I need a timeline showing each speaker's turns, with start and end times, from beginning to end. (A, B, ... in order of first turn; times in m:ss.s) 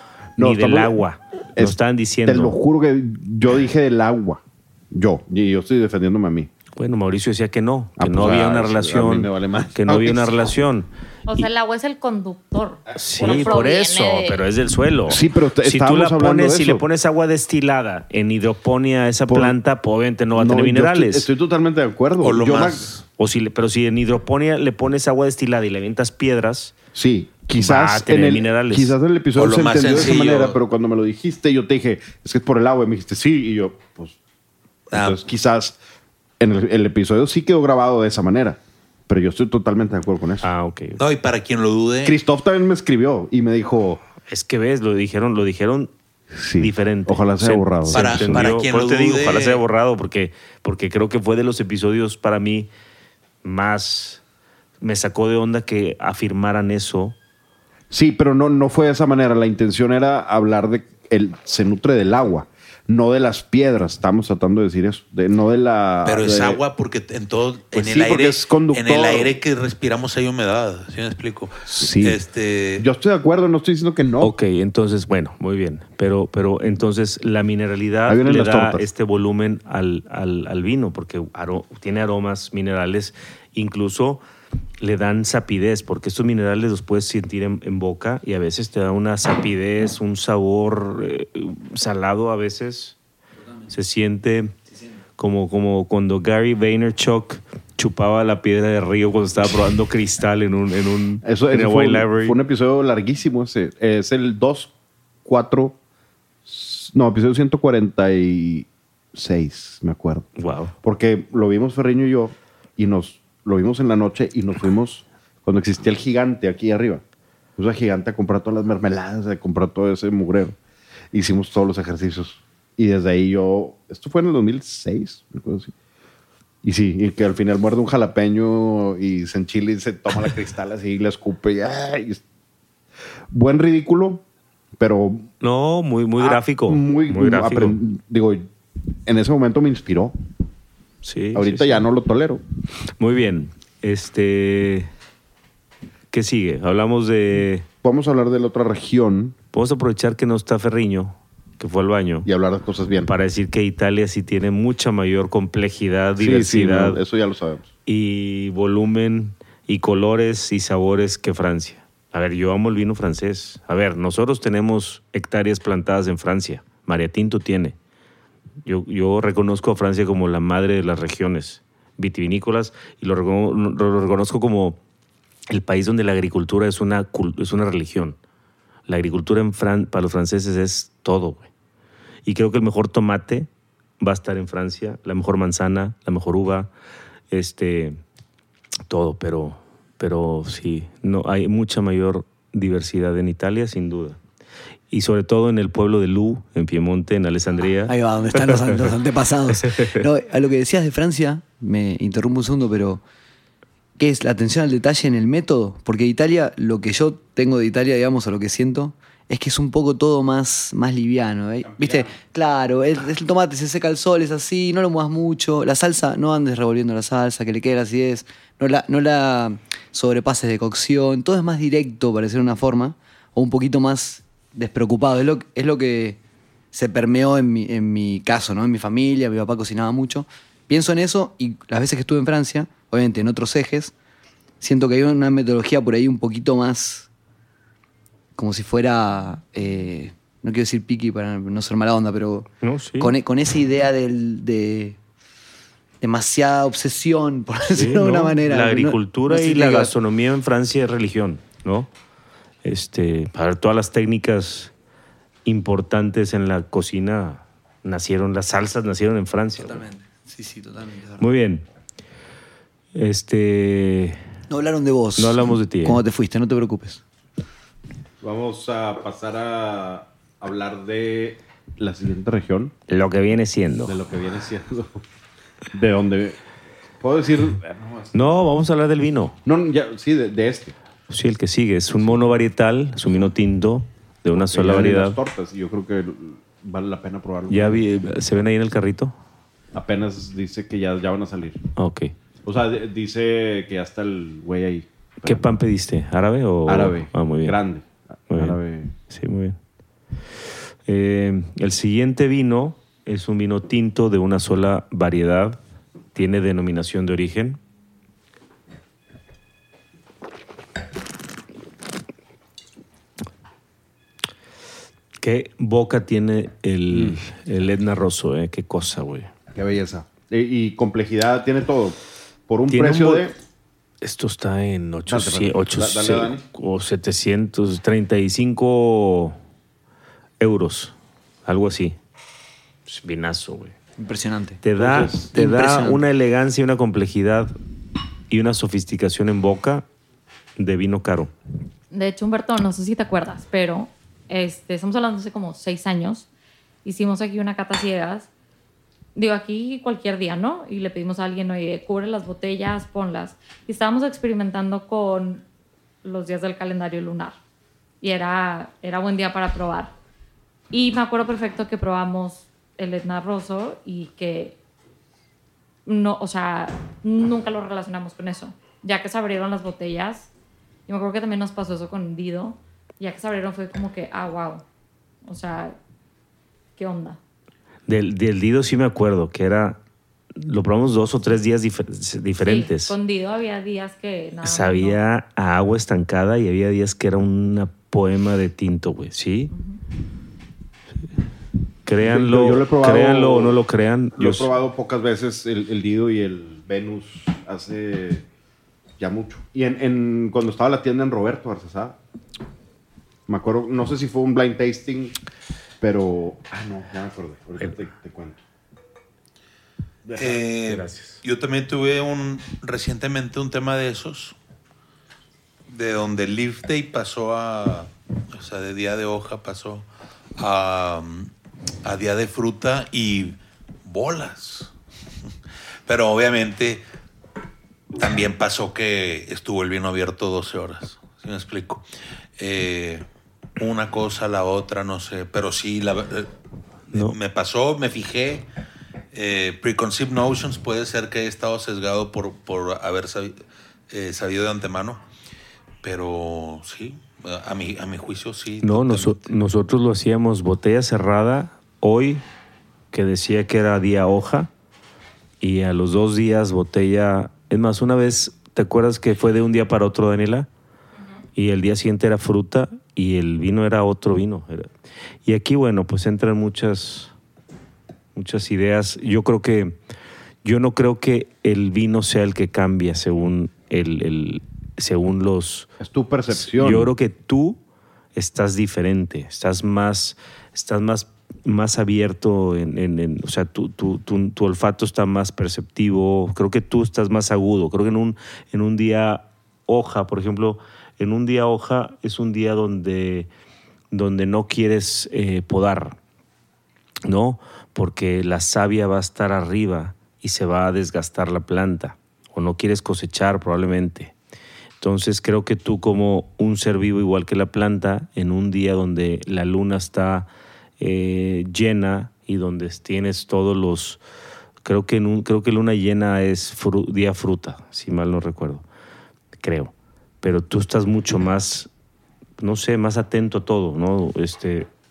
0:00.4-0:01.0 A
0:00.4-0:02.6 B
0:01.5-0:06.5 A
0:06.8-0:11.5 B
0:08.0-0:10.5 A
0:11.3-0:14.4 C
0:12.9-0:21.3 B
0:15.1-0:16.8 A
0:19.3-0:19.6 A
0:20.3-0:22.9 A
0:22.2-0:23.0 D
0:23.2-0:26.7 B
0:26.9-0:34.2 A
0:27.6-0:29.0 B
0:29.4-0:30.6 D
0:34.9-0:35.8 A
0:34.9-0:35.2 D
0:36.4-0:40.5 A
0:40.4-0:41.0 B
0:41.0-0:42.2 D
0:42.0-0:44.0 A
0:44.3-0:45.9 B
0:46.3-0:48.4 A
0:46.6-0:52.7 B
0:47.9-0:49.6 D
0:53.4-0:54.2 B
0:54.8-0:57.2 B
0:57.9-1:06.6 A
1:06.0-1:12.8 D
1:07.7-1:09.3 A
1:11.7-1:12.2 A
1:12.8-1:14.3 A
1:14.2-1:24.2 B
1:18.1-1:18.9 A
1:24.8-1:33.0 B
1:33.7-1:34.5 B
1:35.2-1:42.4 B
1:41.2-1:44.7 A
1:45.2-1:45.8 A
1:46.4-1:50.3 A
1:50.4-1:50.7 B
1:50.8-1:57.0 A
1:57.6-2:00.6 A
2:01.1-2:05.7 A
2:06.6-2:12.2 A
2:13.3-2:14.2 A
2:14.8-2:15.3 A
2:15.4-2:17.8 B
2:16.2-2:18.5 A
2:19.0-2:20.1 A
2:21.0-2:21.8 B
2:21.3-2:22.4 A
2:23.0-2:24.9 B
2:26.1-2:27.6 B
2:27.8-2:29.4 A
2:29.5-2:32.3 B
2:32.2-2:33.1 A
2:33.0-2:37.0 B
2:36.2-2:37.7 A
2:37.8-2:47.8 B
2:48.6-2:54.8 B
2:55.5-2:58.2 B
2:58.9-3:01.5 B
3:02.2-3:03.5 B
3:04.0-3:06.7 B
3:07.3-3:08.0 B
3:08.9-3:14.2 B
3:14.9-3:18.9 B
3:17.8-3:23.0 E
3:19.5-3:20.0 B
3:24.0-3:46.2 E
3:31.7-3:32.1 A
3:46.7-3:53.9 E
3:54.6-3:57.1 E
3:58.4-4:05.0 E
4:02.6-4:03.1 B
4:06.0-4:09.9 E
4:07.7-4:11.9 B
4:12.6-4:14.7 B
4:15.4-4:19.8 B
4:19.5-4:21.3 E
4:21.2-4:21.6 B
4:22.9-4:24.2 B
4:24.5-4:27.0 E
4:25.2-4:26.0 B
4:28.2-4:32.7 A
4:32.9-4:34.0 B
4:33.8-4:35.0 A
4:35.7-4:36.4 A
4:37.0-4:38.4 A
4:38.1-4:39.4 B
4:39.4-4:40.7 A
4:41.1-4:45.2 B
4:44.3-4:47.8 A
4:47.5-4:49.1 B
4:49.7-4:51.6 A
4:51.8-4:52.1 B
4:52.4-4:55.5 A
4:55.2-4:57.6 B
4:56.6-4:58.9 A
4:58.3-4:59.6 B
5:00.8-5:05.6 B
5:06.1-5:07.6 B
5:15.2-5:19.3 B
5:16.9-5:17.2 A
5:19.5-5:22.0 A
5:22.5-5:23.3 A
5:22.7-5:23.3 B
5:24.0-5:29.4 B
5:25.1-5:26.4 A
5:30.4-5:30.9 B
5:31.4-5:32.0 B
5:32.9-5:33.7 B
5:34.0-5:36.0 E
5:34.6-5:37.5 B
5:34.8-5:35.2 A
5:38.3-5:39.8 B
5:40.6-5:41.3 B
5:41.9-5:46.3 C
5:46.8-5:48.3 C
5:49.1-5:55.4 C
5:56.0-5:57.4 C
5:58.0-5:59.9 C
6:00.7-6:04.6 C
6:05.8-6:10.3 C
6:10.9-6:14.6 C
6:15.2-6:15.8 C
6:16.8-6:17.2 C
6:17.9-6:19.8 B
6:20.4-6:22.9 B
6:22.4-6:25.0 C
6:24.4-6:29.5 B
6:29.5-6:29.8 C
6:31.8-6:34.5 B
6:32.0-6:33.6 A
6:34.2-6:38.2 A
6:39.0-6:42.0 A
6:43.3-6:45.1 A
6:45.8-6:48.4 A
6:50.0-6:50.4 A
6:50.2-6:54.4 D
6:50.6-6:51.2 B
6:55.7-7:01.3 D
7:01.8-7:04.7 D
7:05.9-7:06.8 D
7:08.0-7:11.8 D
7:12.4-7:13.0 D
7:13.6-7:16.3 D
7:16.9-7:18.4 D
7:19.1-7:23.4 D
7:23.9-7:25.0 D
7:25.8-7:29.3 D
7:28.6-7:32.2 B
7:32.9-7:34.5 B
7:35.4-7:40.5 B
7:41.4-7:44.7 B
7:45.2-7:47.1 B
7:48.1-7:49.8 B
7:50.4-7:55.7 B
7:55.8-7:56.9 A
7:56.3-7:57.6 B
7:58.1-8:13.3 B
8:13.9-8:16.0 B
8:17.0-8:24.1 B
8:24.8-8:30.3 B
8:30.8-8:34.0 B
8:34.6-8:38.6 B
8:39.4-8:41.7 B
8:42.4-8:44.7 B